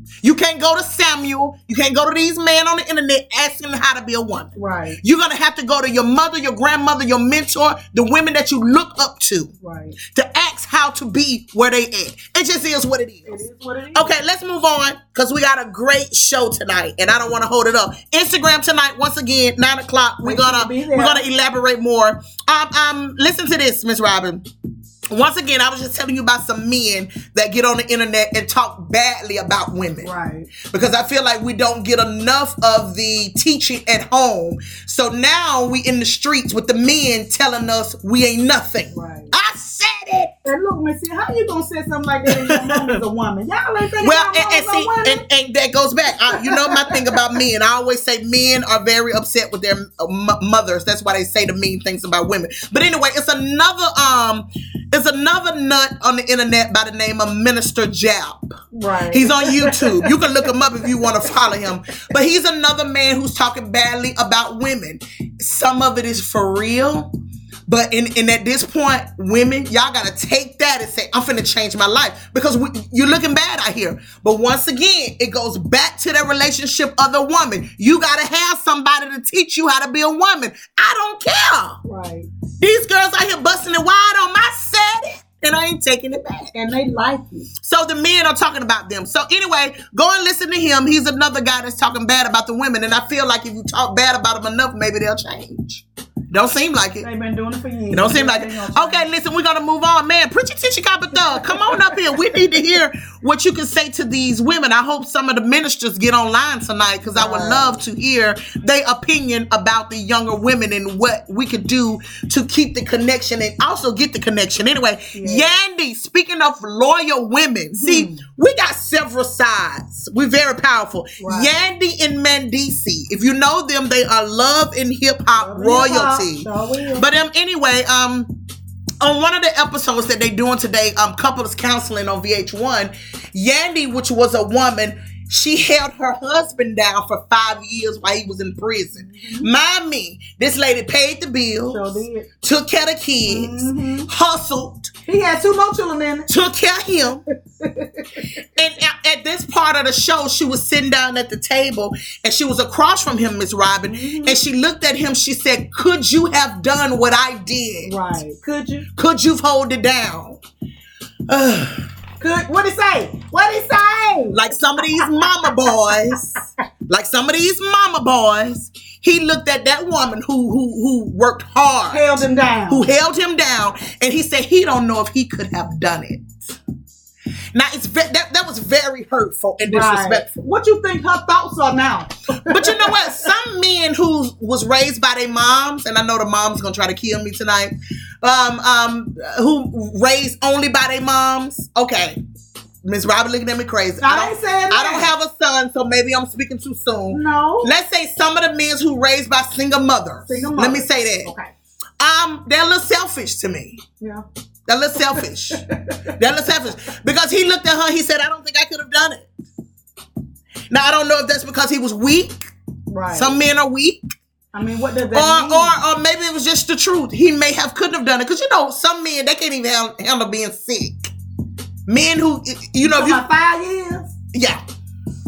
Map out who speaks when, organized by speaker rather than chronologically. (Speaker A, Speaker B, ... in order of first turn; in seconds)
Speaker A: 0.2-9.5, 10.1-13.3, 13.9-24.4, 25.1-30.1, 30.6-40.3, 42.2-43.0, 44.0-58.5, 59.1-67.1, 67.7-81.8, 82.6-86.5, 87.6-97.1, 97.9-128.3, 129.0-144.9, 146.3-147.2, 148.5-157.9, 158.9-160.4, 161.3-161.9, 164.3-176.6, 177.5-180.3, 182.4-192.2, 192.8-201.3, 202.0-203.8, 204.7-209.3, 210.7-212.5, 213.1-214.0, 215.1-221.1, 221.9-223.2, 224.3-224.6
Speaker B: 4.5-5.0, 9.6-10.0, 13.2-14.1, 20.2-21.2, 30.0-30.5, 38.9-39.3, 40.5-45.2, 46.3-47.0, 58.7-61.7, 81.8-82.3, 86.5-87.5, 97.0-99.1, 101.7-102.2, 107.1-107.8, 115.1-115.6, 117.8-118.2, 121.2-121.5, 125.3-127.0, 138.9-139.5, 141.7-142.3, 143.3-144.1, 145.1-146.3, 147.6-148.3, 153.8-154.4, 157.8-158.8, 162.2-164.4, 165.7-166.1, 171.9-172.9, 179.7-183.3, 194.0-195.1, 197.1-197.7, 200.3-201.5, 204.0-204.2, 204.9-206.2, 212.9-213.3, 214.5-215.8, 222.8-224.1